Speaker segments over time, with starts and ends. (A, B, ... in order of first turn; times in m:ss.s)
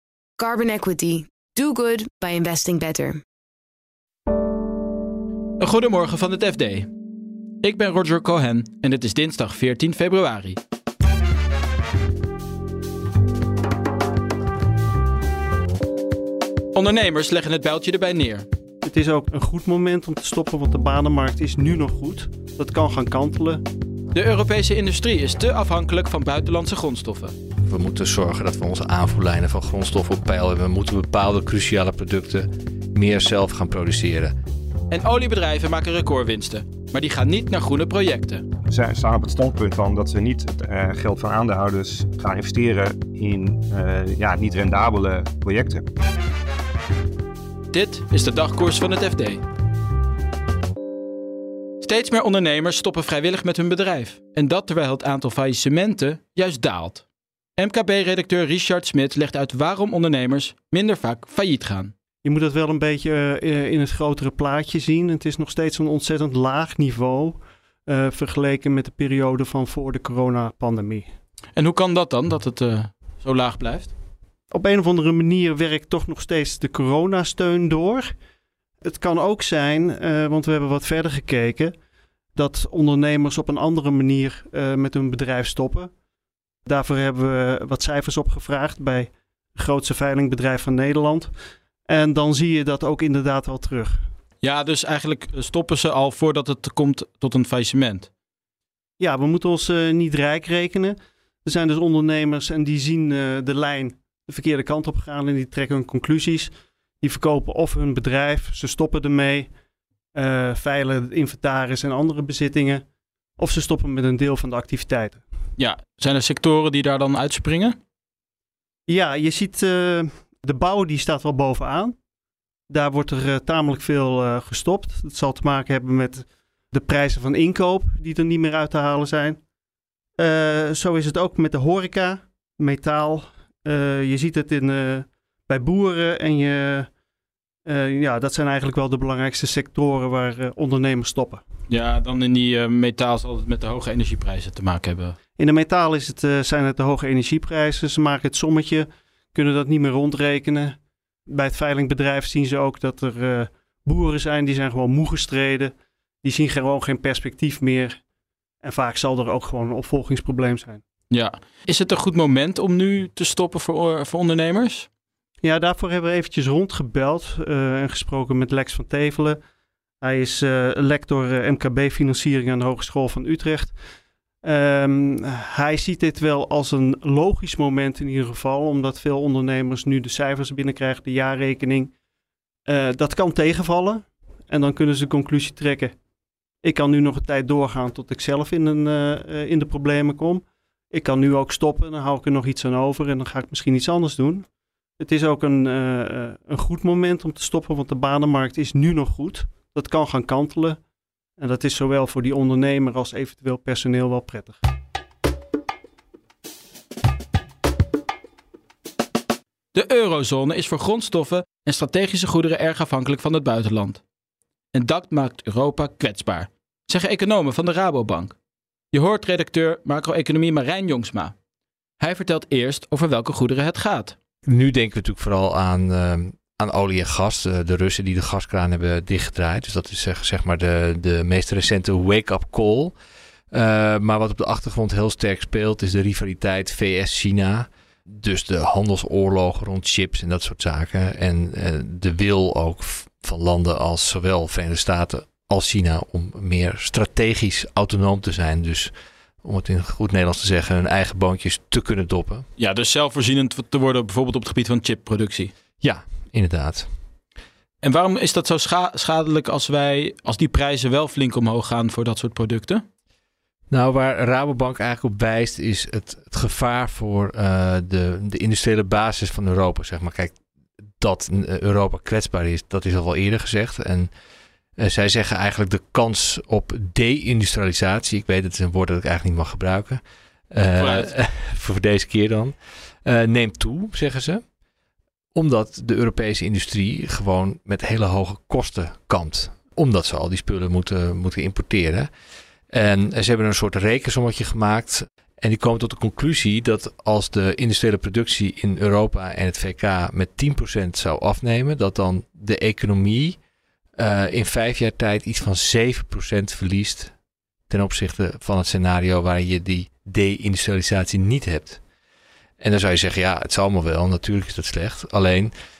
0:00.4-0:03.2 A
0:05.6-0:06.9 B
0:07.6-0:10.6 B
0:16.7-0:18.4 B
0:18.8-0:23.6 C
0:24.1-0:27.4 B
0:27.6-0:34.3 D
0:34.9-0:38.4 B
0:38.7-0:45.8 E
0:47.7-0:49.4 B
0:51.8-0:57.0 B
0:57.6-1:01.9 B
1:02.2-1:11.1 C
1:11.5-1:13.9 B
1:14.5-1:18.1 C
1:18.8-1:21.7 C
1:22.3-1:25.9 C
1:26.6-1:31.3 C
1:31.8-1:34.1 C
1:34.4-1:38.1 B
1:39.0-1:49.5 C
1:50.1-1:52.8 C
1:53.4-1:55.2 C
1:55.6-1:57.8 B
1:58.9-2:02.0 C
2:02.7-2:09.4 C
2:10.2-2:16.9 C
2:17.6-2:21.4 C
2:21.7-2:25.2 B
2:25.4-2:38.0 C
2:38.6-2:40.8 C
2:41.1-2:44.9 B
2:45.4-2:49.4 C
2:50.0-2:53.8 C
2:54.4-3:01.9 C
3:02.7-3:05.9 C
3:06.6-3:14.5 C
3:15.0-3:20.8 C
3:21.4-3:24.6 C
3:29.7-3:34.0 B
3:34.7-3:38.3 B
3:38.9-3:41.3 B
3:42.0-3:44.1 B
3:44.4-3:52.9 D
3:53.5-4:12.4 D
4:12.6-4:15.5 B
4:15.8-4:16.9 D
4:17.8-4:22.8 B
4:23.7-4:30.3 D
4:31.0-4:34.1 D
4:34.8-4:44.4 D
4:40.8-4:41.1 B
4:45.3-4:52.1 D
4:52.7-5:03.4 D
5:04.0-5:07.1 D
5:07.7-5:11.8 D
5:12.6-5:15.5 D